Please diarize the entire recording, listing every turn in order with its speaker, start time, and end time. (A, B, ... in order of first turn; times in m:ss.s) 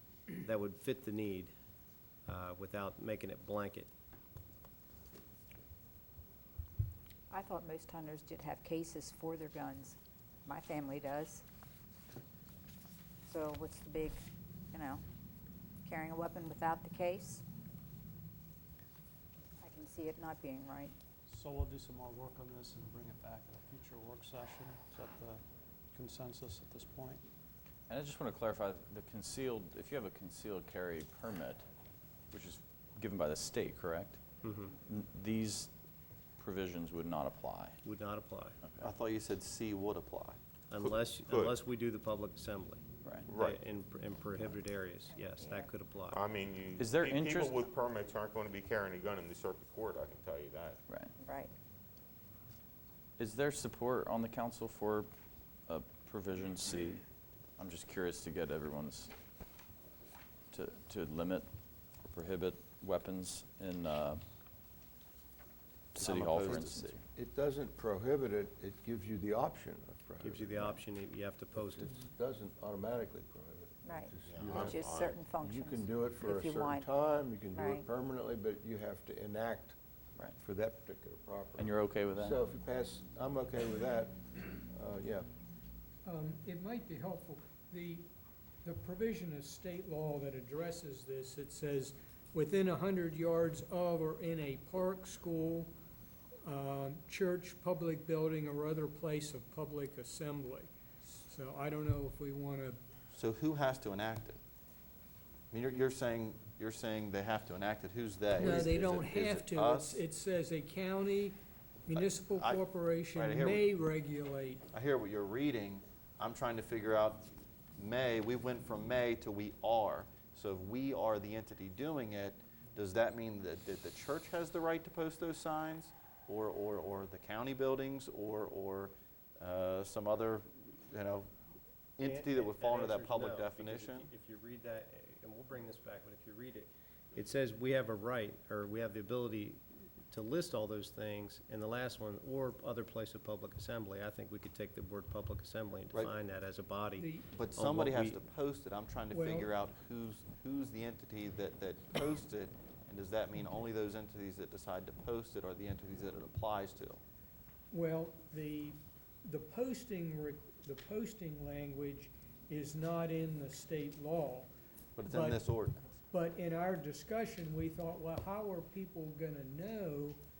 0:00.4-0:01.5 A
0:02.3-0:03.9 A
0:07.3-0:11.4 B
0:13.3-0:14.2 B
0:14.7-0:15.0 B
0:15.8-0:17.4 B
0:19.6-0:20.9 B
0:21.3-0:25.4 C
0:25.9-0:27.2 C
0:27.9-0:31.6 D
0:32.3-0:34.2 D
0:34.4-0:34.7 A
0:34.8-0:35.7 D
0:36.4-0:37.8 D
0:37.8-0:38.6 A
0:38.6-0:38.9 D
0:38.8-0:40.4 E
0:40.7-0:46.2 A
0:40.8-0:41.6 F
0:43.3-0:43.6 F
0:45.2-0:45.7 B
0:46.1-0:50.8 F
0:46.8-0:47.5 D
0:51.2-0:51.5 B
0:53.2-0:55.1 D
0:55.7-0:57.0 D
0:57.6-0:59.1 D
1:00.5-1:01.4 D
1:02.1-1:04.2 D
1:05.9-1:07.0 D
1:06.0-1:06.9 E
1:07.1-1:10.8 G
1:10.2-1:12.0 A
1:11.5-1:14.8 G
1:13.8-1:16.9 B
1:14.2-1:15.1 F
1:15.4-1:19.8 G
1:17.5-1:17.9 B
1:20.4-1:25.3 G
1:21.6-1:22.4 D
1:26.0-1:28.0 H
1:28.6-1:35.7 H
1:36.4-1:42.8 H
1:43.1-1:44.4 E
1:45.5-1:50.0 E
1:48.3-1:54.6 H
1:51.9-1:53.7 E
1:54.7-2:11.3 E
2:12.0-2:14.1 E
2:12.0-2:28.2 A
2:27.0-2:27.3 H
2:27.3-2:37.0 E
2:29.1-2:29.5 H
2:37.7-2:44.5 H
2:45.0-2:46.0 E
2:45.0-2:45.4 H
2:46.1-2:50.2 H